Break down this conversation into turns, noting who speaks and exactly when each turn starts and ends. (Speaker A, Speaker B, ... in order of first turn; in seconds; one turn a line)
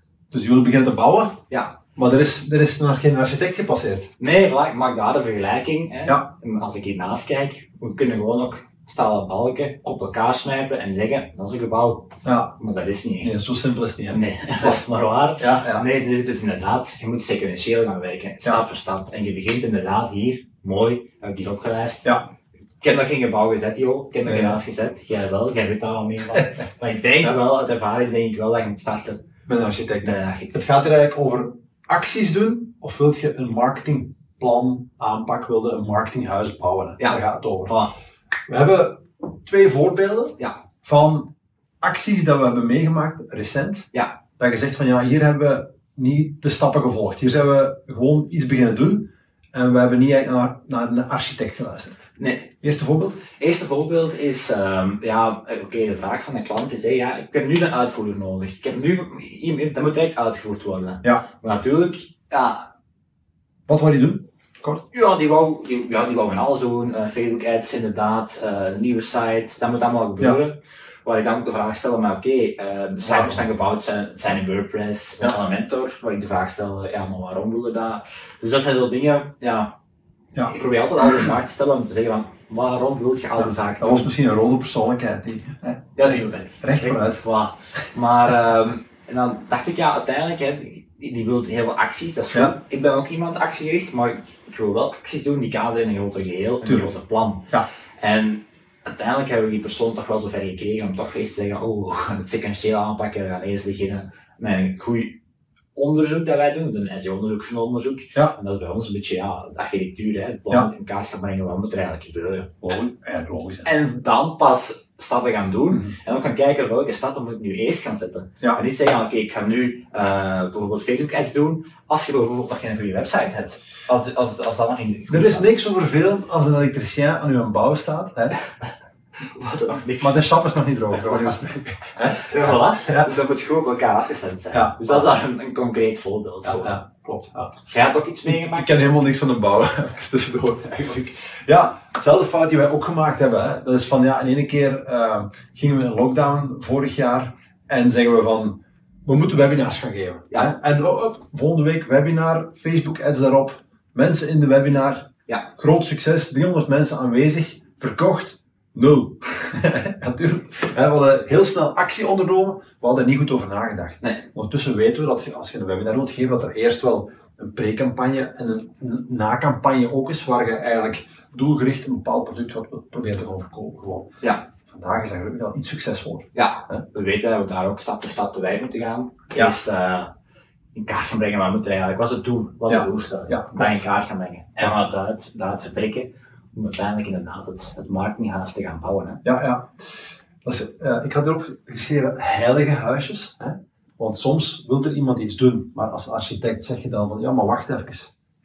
Speaker A: 0.3-1.4
Speaker B: 1.5-1.8
Speaker A: 1.9-4.1
Speaker B: 4.2-13.4
Speaker A: 12.2-12.5
Speaker A: 13.2-14.8
Speaker B: 14.1-22.1
Speaker A: 15.4-15.9
Speaker B: 22.8-29.2
Speaker A: 24.2-24.6
Speaker A: 29.5-37.8
Speaker B: 30.0-30.6
Speaker B: 37.0-37.9
Speaker A: 38.5-41.3
Speaker A: 41.8-43.9
Speaker A: 44.4-52.1
Speaker B: 52.2-52.5
Speaker A: 52.6-53.2
Speaker B: 53.4-62.7
Speaker A: 63.7-64.8
Speaker B: 64.9-79.7
Speaker A: 73.0-73.4
Speaker A: 80.3-81.3
Speaker B: 80.4-84.1
Speaker A: 83.4-86.1
Speaker B: 86.0-97.5
Speaker A: 86.6-87.2
Speaker A: 96.6-96.9
Speaker B: 98.0-105.2
Speaker B: 105.8-112.7
Speaker A: 112.6-113.7
Speaker B: 113.6-125.6
Speaker A: 125.1-128.4
Speaker B: 129.3-130.2
Speaker A: 130.0-133.1
Speaker B: 131.0-131.2
Speaker B: 132.0-136.8
Speaker A: 134.5-135.1
Speaker A: 136.4-137.6
Speaker B: 137.7-138.8
Speaker A: 138.2-174.1
Speaker A: 174.7-176.8
Speaker B: 176.3-180.1
Speaker B: 180.7-189.2
Speaker A: 182.7-183.8
Speaker A: 189.2-189.7
Speaker A: 190.4-198.1